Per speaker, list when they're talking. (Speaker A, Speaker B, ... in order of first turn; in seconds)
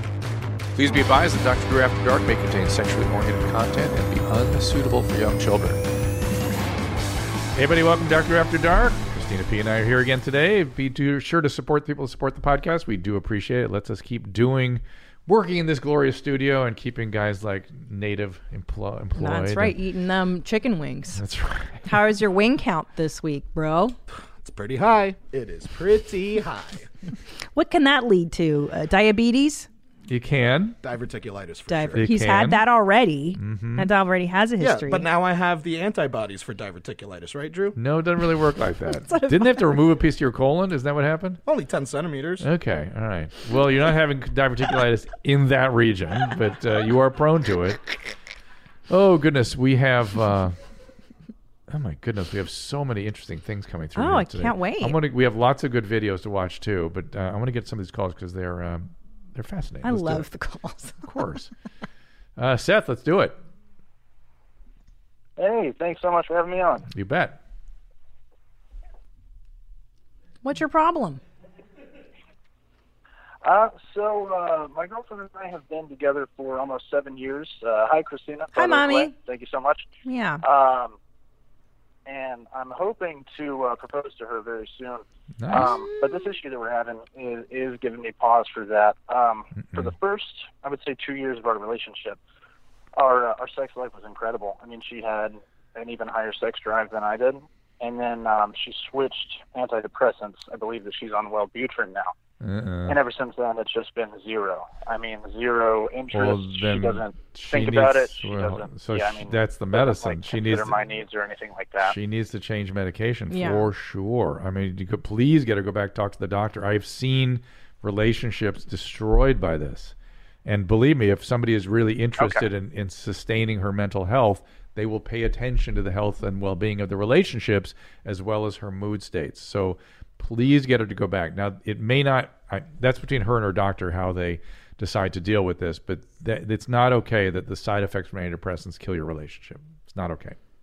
Speaker A: 0.8-5.8, 7.5-19.8, 21.2-21.9, 30.1-30.8, 31.9-32.6, 33.3-33.9, 37.8-41.4, 42.4-47.8, 48.9-50.6, 51.7-60.2, 61.0-61.5, 62.4-63.4, 66.9-67.4, 85.4-85.7, 89.6-89.9, 102.4-103.0, 106.1-110.8, 111.8-140.4
Speaker B: 19.2-21.2, 21.8-23.9, 27.5-29.7, 31.7-35.1, 38.9-39.8, 54.0-55.0, 59.8-61.1, 70.4-71.2, 78.5-79.1, 80.0-80.4, 85.5-86.4, 113.3-113.7
Speaker C: 24.2-26.9, 30.8-32.0, 34.6-37.8, 41.5-42.5
Speaker D: 65.4-66.9, 73.4-79.8, 80.4-81.0, 82.1-92.2, 93.0-102.1, 102.9-112.0